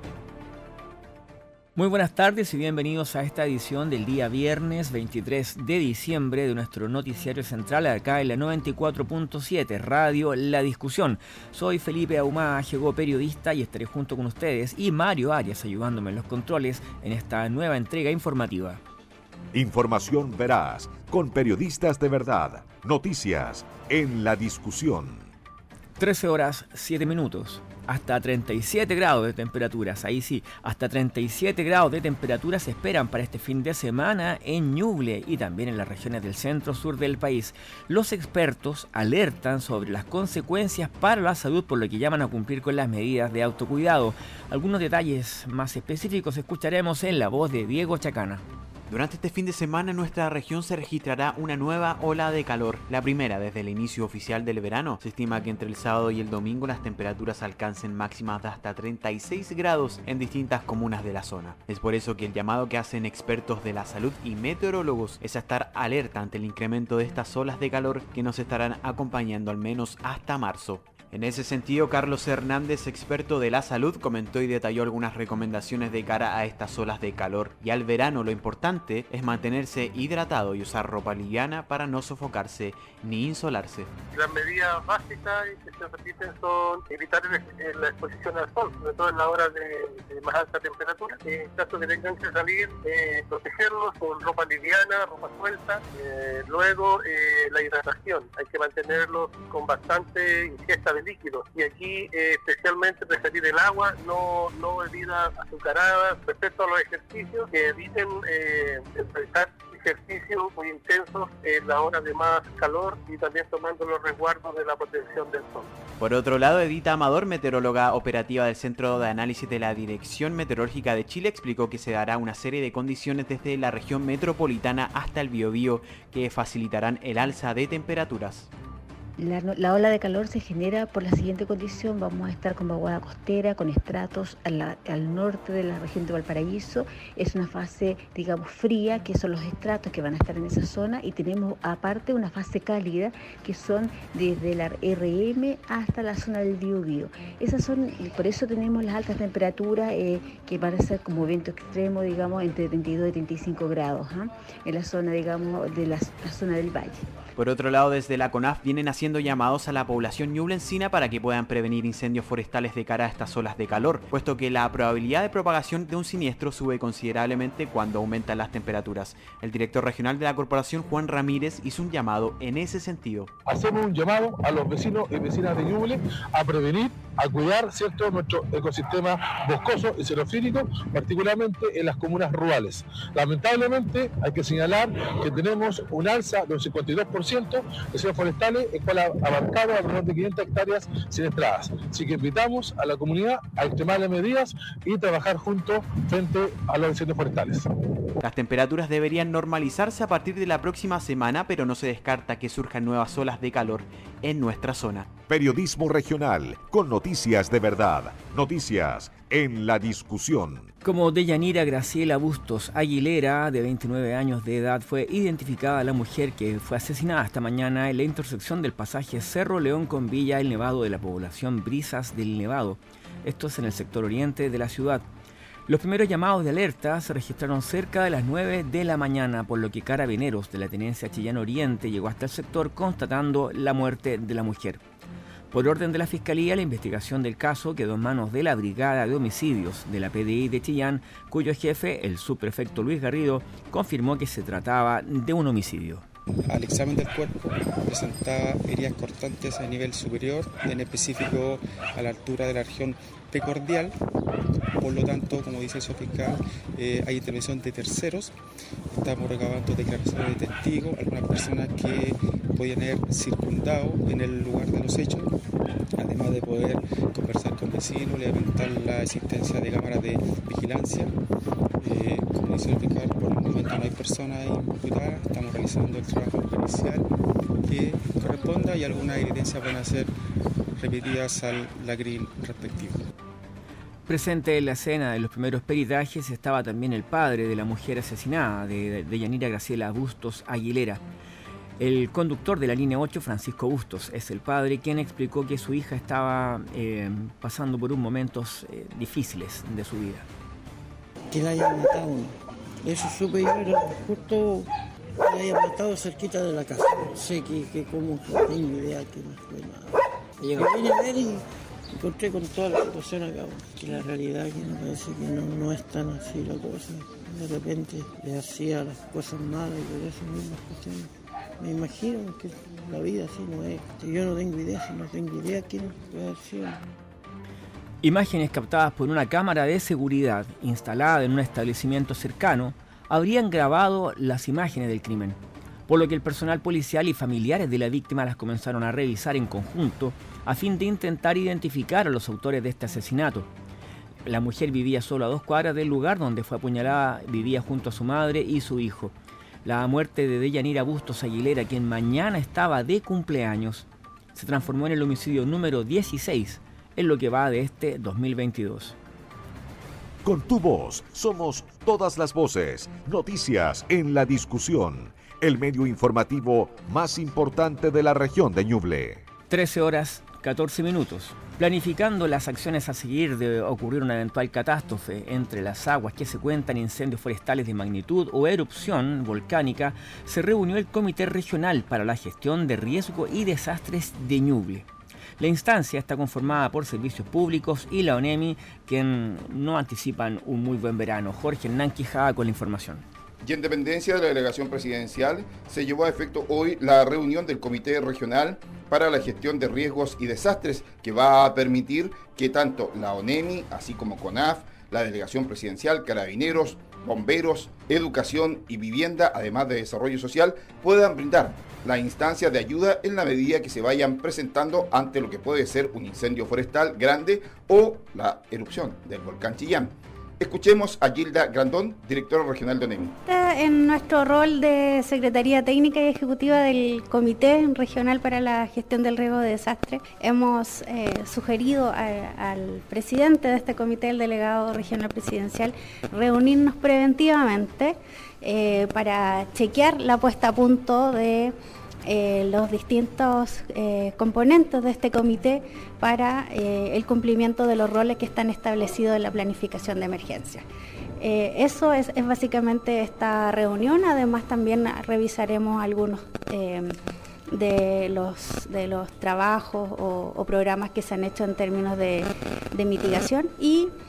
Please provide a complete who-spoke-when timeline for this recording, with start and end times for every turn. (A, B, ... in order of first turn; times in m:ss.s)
0:01.8-0:18.8 A
0:19.5-0:25.3 B
0:26.0-0:48.4 A
0:48.9-1:23.9 C
1:24.1-1:55.7 D
1:56.0-2:08.5 C
2:09.2-2:37.0 E
2:37.3-2:53.3 C
2:53.4-3:17.7 F
3:18.2-3:25.1 C
3:25.3-3:30.7 B
3:30.8-3:45.0 A
3:45.7-3:54.8 A
3:55.5-4:06.0 A
4:06.5-4:14.0 G
4:14.8-4:18.3 G
4:18.9-4:25.3 G
4:26.0-4:31.2 G
4:31.8-4:37.1 G
4:37.6-4:40.1 G
4:40.8-4:43.1 G
4:44.1-4:51.0 A
4:51.8-5:00.2 A
5:01.3-5:04.7 H
5:05.2-5:26.8 H
5:28.0-5:43.5 A
5:44.2-5:49.1 A
5:49.6-5:58.9 A
6:00.2-6:09.2 B
6:09.5-6:24.8 A
6:25.4-6:33.0 A
6:33.4-7:03.1 I
7:03.2-7:30.6 J
7:31.2-7:37.0 J
7:37.5-7:43.9 J